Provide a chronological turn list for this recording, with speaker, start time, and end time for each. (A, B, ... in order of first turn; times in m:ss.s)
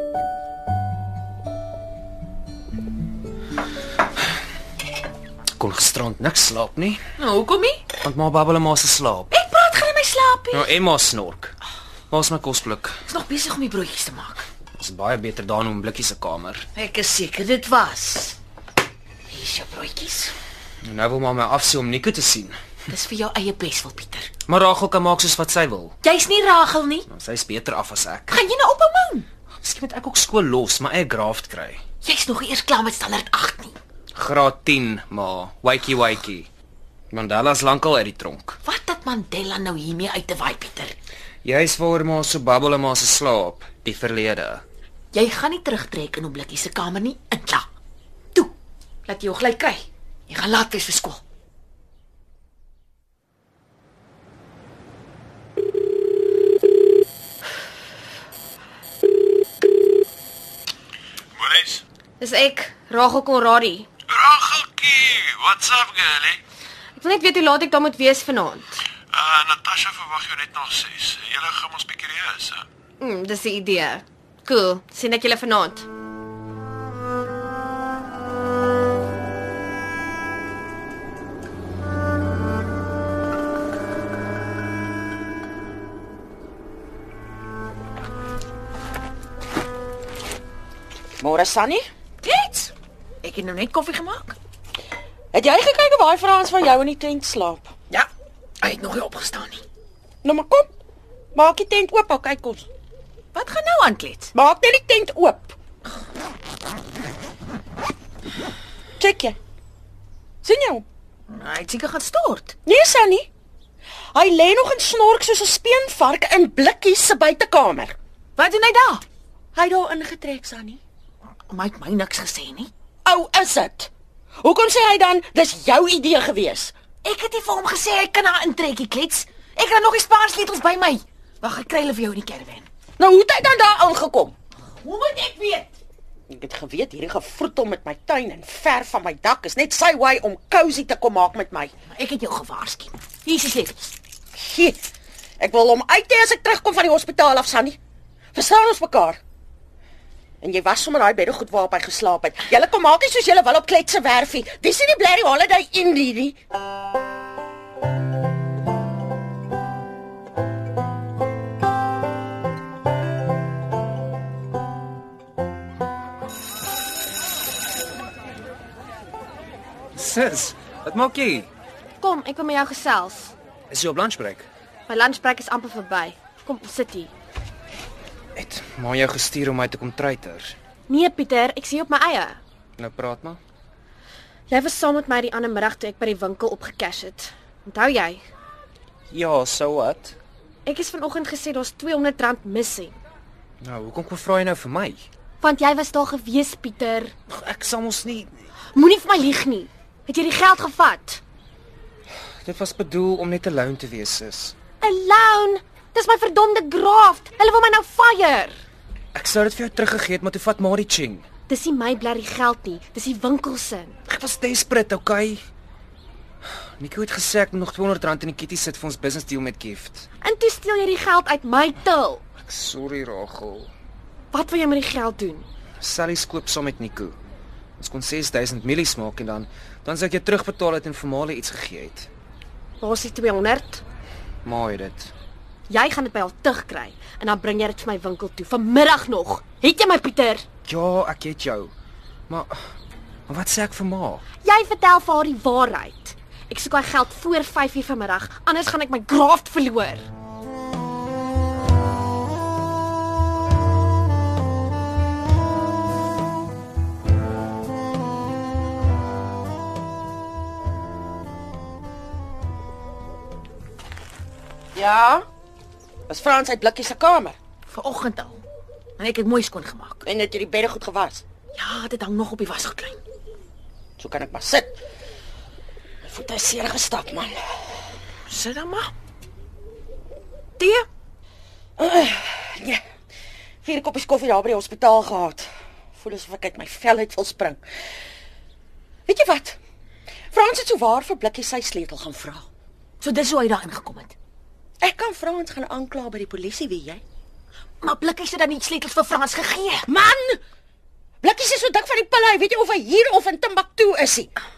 0:05.6-0:07.0 A
0:07.2-0:07.8 B
0:08.0-0:09.3 A
0:09.3-0:10.7 B
0:10.5-0:11.6 A
0:12.1-0:13.0 A
0:13.1-0:14.5 B
0:14.8-0:16.7 A
0:16.8-0:18.4 B
0:19.3-0:20.3 B
0:20.8-0:22.6 A
0:22.9-0:24.3 B
0:24.5-0:26.0 A
0:26.0-0:27.1 B
0:27.1-0:28.4 A
0:28.3-0:29.3 B
0:29.6-0:31.8 A
0:32.0-0:33.8 B
0:34.2-0:36.5 A
0:37.1-0:38.6 A
0:38.6-0:41.0 B
0:41.4-0:44.6 A
0:45.1-0:47.7 B
0:49.1-0:51.2 B
1:01.4-1:01.8 C
1:02.2-1:03.9 D
1:04.1-1:06.4 C
1:07.0-1:08.8 D
1:09.1-1:12.6 C
1:13.0-1:15.9 D
1:31.2-1:31.9 E
1:32.2-1:34.4 B
1:35.3-1:37.7 E
1:38.6-1:39.6 B
1:40.2-1:40.7 E
1:41.4-1:42.7 E
1:43.3-1:44.3 B
1:44.3-1:45.6 E
1:49.0-1:49.4 E
1:50.4-1:50.8 E
1:51.3-1:52.6 B
1:52.6-1:53.3 E
1:54.2-1:58.0 E
1:58.4-1:59.0 B
1:59.5-2:00.8 E
2:01.5-2:02.7 B
2:03.0-2:06.7 E
2:07.0-2:12.7 B
2:13.0-2:14.4 E
2:14.6-2:15.7 B
2:16.3-2:21.7 E
2:21.9-2:23.9 B
2:24.4-2:24.8 E
2:25.4-2:27.8 E
2:28.3-2:29.2 E
2:30.4-2:36.4 E
2:49.9-2:51.5 A
2:52.0-2:53.4 D
2:53.7-2:54.5 A
2:54.9-2:57.1 D
2:58.4-3:00.6 A
3:00.9-3:02.4 D
3:02.8-3:03.4 A
3:04.5-3:08.2 D
3:09.1-3:10.2 A
3:10.7-3:13.0 D
3:13.6-3:15.1 A
3:15.4-3:17.2 D
3:17.3-3:18.4 A
3:18.7-3:21.2 D
3:22.4-3:24.6 A
3:24.8-3:28.6 D
3:29.2-3:31.3 A
3:31.5-3:34.0 D
3:34.1-3:35.4 A
3:36.8-3:40.1 A
3:40.2-3:42.2 D
3:42.4-3:43.7 A
3:44.3-3:45.5 D
3:45.8-3:47.2 A
3:47.8-3:52.1 A
3:52.8-3:53.8 D
3:54.4-3:55.1 A
3:55.7-4:00.4 D
4:00.6-4:01.7 A
4:02.3-4:02.7 A
4:03.3-4:04.2 A
4:04.4-4:10.1 D
4:24.8-4:25.3 E
4:26.1-4:27.4 E
4:27.7-4:28.4 B
4:29.0-4:30.0 B
4:30.0-4:31.2 E
4:31.6-4:33.0 B
4:34.0-4:34.8 E
4:36.0-4:37.7 E
4:38.3-4:38.9 B
4:40.6-4:40.8 B
4:41.8-4:42.8 E
4:43.6-4:45.5 E
4:46.0-4:47.6 E
4:49.1-4:49.6 E
4:50.3-4:52.5 E
4:53.0-4:54.2 B
4:54.8-4:57.0 E
4:57.8-4:59.9 B
4:59.9-5:00.4 E
5:01.2-5:04.3 E